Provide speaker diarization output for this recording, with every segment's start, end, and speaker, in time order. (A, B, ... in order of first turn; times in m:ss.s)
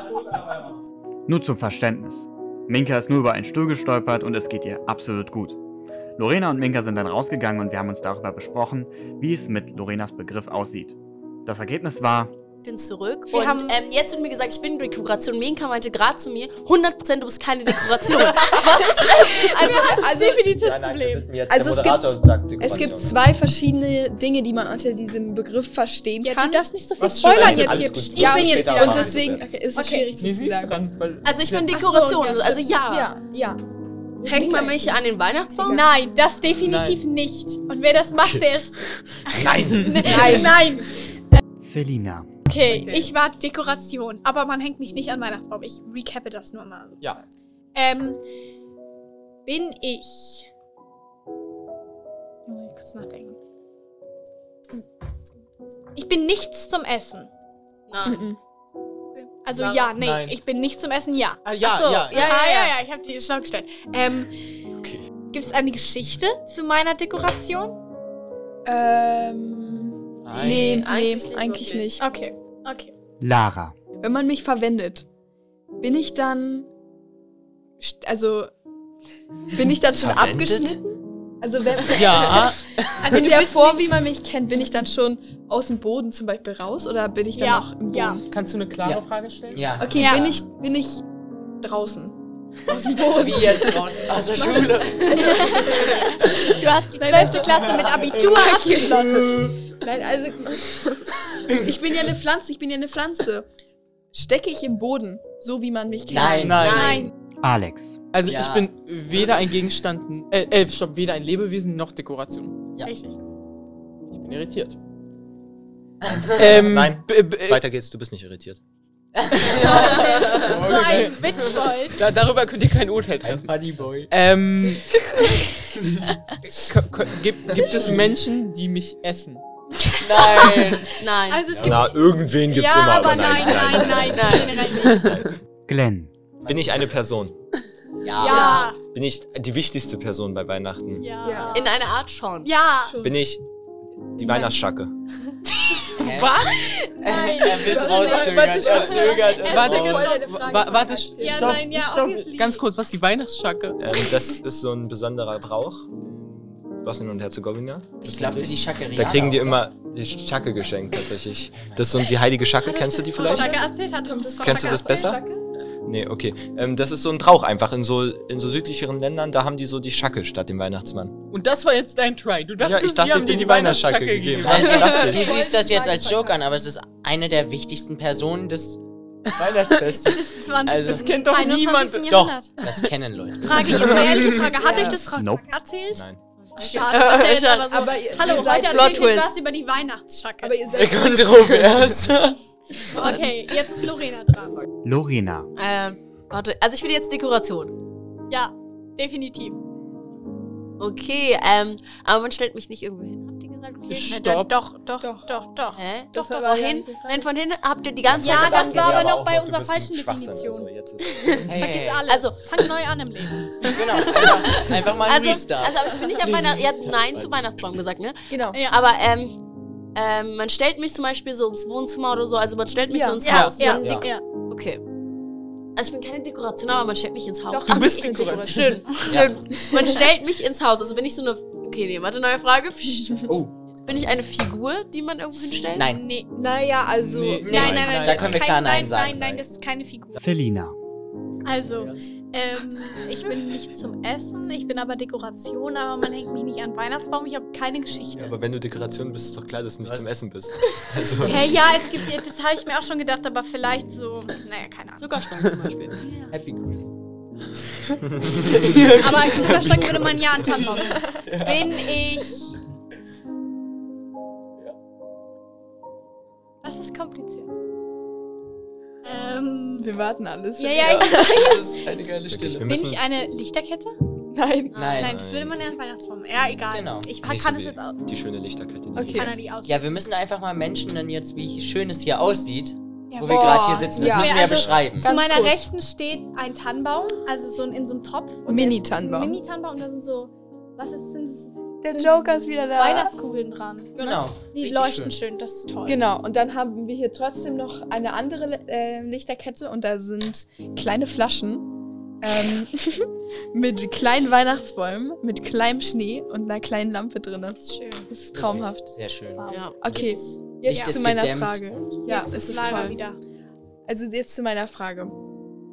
0:01.3-0:05.6 A
0:06.2-0:12.3 A
0:12.6-0:19.8 B
0:13.3-0:13.8 C
0:18.4-0:21.3 C
0:19.0-0:20.6 D
0:20.6-0:23.2 E
0:21.4-0:26.8 D
0:26.2-0:30.2 C
0:27.0-0:28.0 F
0:27.3-0:29.5 E
0:28.0-0:30.8 D
0:30.2-0:31.6 F
0:31.2-0:33.1 B
0:31.7-0:32.7 C
0:32.8-0:33.6 D
0:34.2-0:35.0 D
0:34.2-0:35.8 B
0:35.6-0:35.9 D
0:35.7-0:41.4 C
0:36.6-0:37.0 F
0:38.2-0:38.5 E
0:39.3-0:40.5 E
0:39.8-0:40.5 F
0:40.1-0:40.7 D
0:41.6-0:42.3 A
0:42.5-0:47.0 C
0:42.7-0:43.1 F
0:47.8-0:48.2 C
0:49.5-0:50.5 C
0:52.5-0:53.4 C
0:56.0-0:57.3 C
0:57.9-0:58.3 B
0:58.0-0:58.4 D
0:59.2-0:59.9 B
0:59.4-1:01.5 C
1:00.0-1:00.4 F
1:01.4-1:02.3 F
1:01.6-1:02.8 B
1:02.1-1:04.6 C
1:05.3-1:07.8 C
1:08.6-1:12.0 D
1:10.2-1:10.8 F
1:10.3-1:12.0 B
1:12.0-1:12.9 C
1:13.2-1:13.8 A
1:14.0-1:15.1 D
1:15.8-1:16.7 D
1:17.8-1:18.5 D
1:19.5-1:28.2 D
1:19.9-1:20.8 E
1:21.8-1:22.6 G
1:23.0-1:24.0 C
1:27.4-1:28.2 C
1:28.3-1:29.8 F
1:28.8-1:30.3 G
1:29.8-1:31.1 D
1:30.0-1:30.4 C
1:31.6-1:43.5 D
1:33.1-1:35.4 G
1:35.0-1:39.5 C
1:44.1-1:46.8 D
1:46.1-1:46.8 G
1:46.2-1:47.1 C
1:46.4-1:47.0 F
1:46.6-1:47.1 B
1:47.4-1:48.0 A
1:48.1-1:52.7 F
1:48.2-1:49.2 G
1:52.8-1:53.2 C
1:54.1-1:54.8 F
1:56.0-1:56.6 G
1:56.0-1:58.6 E
1:56.4-1:57.6 F
1:59.2-2:01.7 G
1:59.5-2:02.0 C
2:00.5-2:01.2 F
2:01.9-2:03.5 F
2:03.2-2:04.1 G
2:04.1-2:04.9 F
2:06.5-2:09.4 F
2:10.0-2:10.9 G
2:10.1-2:10.7 C
2:10.9-2:11.5 B
2:11.3-2:15.3 C
2:11.5-2:11.8 G
2:11.6-2:15.3 E
2:14.1-2:14.7 B
2:14.8-2:15.2 F
2:15.7-2:16.1 A
2:16.4-2:16.9 G
2:16.4-2:17.4 E
2:18.0-2:18.6 G
2:18.1-2:18.8 C
2:18.2-2:18.7 B
2:18.9-2:21.1 E
2:21.0-2:21.8 C
2:21.2-2:21.6 D
2:21.5-2:22.5 B
2:22.4-2:23.0 C
2:22.8-2:23.3 D
2:23.0-2:23.4 E
2:24.1-2:24.9 E
2:24.2-2:24.6 D
2:25.7-2:26.8 F
2:26.0-2:26.4 G
2:27.0-2:30.3 C
2:27.0-2:30.1 G
2:27.5-2:31.8 D
2:28.0-2:33.8 F
2:31.2-2:32.7 C
2:33.8-2:36.0 E
2:36.7-2:43.6 E
2:38.0-2:39.6 G
2:41.5-2:42.0 G
2:42.6-2:45.2 C
2:43.2-2:45.4 D
2:44.4-2:45.2 E
2:45.9-2:51.2 E
2:51.3-2:55.0 F
2:52.6-2:55.4 E
2:54.4-2:58.8 G
2:54.7-2:55.1 B
2:54.8-2:56.4 D
2:59.3-3:01.1 G
3:00.0-3:02.6 C
3:00.9-3:02.8 F
3:02.1-3:04.5 G
3:03.4-3:06.0 C
3:04.5-3:05.0 D
3:05.0-3:05.5 A
3:05.9-3:06.2 E
3:06.4-3:09.4 B
3:06.6-3:10.6 C
3:07.7-3:09.2 D
3:10.4-3:11.8 D
3:10.7-3:12.4 G
3:12.9-3:14.6 C
3:12.9-3:13.2 D
3:13.0-3:13.2 B
3:14.8-3:15.5 A
3:15.6-3:17.8 B
3:18.3-3:19.6 C
3:20.8-3:24.2 B
3:23.9-3:24.5 F
3:24.1-3:25.8 C
3:25.0-3:25.3 D
3:25.7-3:29.0 B
3:26.1-3:27.3 D
3:28.1-3:31.5 E
3:28.2-3:30.7 C
3:31.2-3:31.5 B
3:31.5-3:32.1 G
3:31.6-3:33.7 C
3:32.1-3:32.4 B
3:33.6-3:37.3 G
3:34.2-3:39.4 B
3:36.3-3:36.7 F
3:38.3-3:38.6 D
3:40.0-3:44.8 B
3:42.9-3:43.2 D
3:43.2-3:44.2 C
3:43.3-3:43.6 F
3:43.7-3:44.1 G
3:45.8-3:53.3 B
3:47.5-3:48.9 D
3:47.7-3:48.8 F
3:49.1-3:49.4 G
3:49.6-3:49.9 D
3:53.3-3:54.0 G
3:53.8-3:55.9 B
3:55.8-3:56.0 G
3:55.9-3:56.3 C
3:56.3-3:57.6 D
3:57.0-3:58.3 F
3:57.4-3:59.4 G
3:57.5-4:00.2 C
3:57.7-3:58.4 E
4:00.2-4:00.8 A
4:01.4-4:08.4 C
4:08.2-4:11.6 E
4:09.8-4:10.1 G
4:11.2-4:15.2 C
4:15.0-4:16.2 B
4:16.3-4:16.9 G
4:18.2-4:18.8 E
4:18.6-4:19.3 F
4:18.9-4:22.5 C
4:19.4-4:20.5 E
4:20.7-4:21.3 D
4:21.3-4:21.6 G
4:26.6-4:27.5 C
4:29.0-4:29.9 C
4:29.8-4:31.6 D
4:30.6-4:31.9 C
4:30.8-4:32.7 G
4:32.3-4:33.0 E
4:32.6-4:34.0 C
4:34.3-4:35.0 D
4:34.7-4:35.1 B
4:34.8-4:35.2 G
4:35.0-4:38.0 C
4:35.0-4:35.6 E
4:36.7-4:37.2 G
4:37.2-4:39.3 E
4:39.0-4:39.4 D
4:39.1-4:39.9 C
4:39.6-4:45.1 G
4:43.1-4:56.0 C
4:43.2-4:45.7 D
4:48.5-4:49.4 D
4:51.8-4:53.1 D
4:54.0-4:55.2 G
4:55.9-5:01.7 D
5:02.2-5:08.9 D
5:07.5-5:08.1 C
5:08.3-5:11.8 G
5:09.4-5:11.0 C
5:09.4-5:09.8 B
5:09.8-5:13.0 D
5:12.0-5:13.2 C
5:13.9-5:15.2 D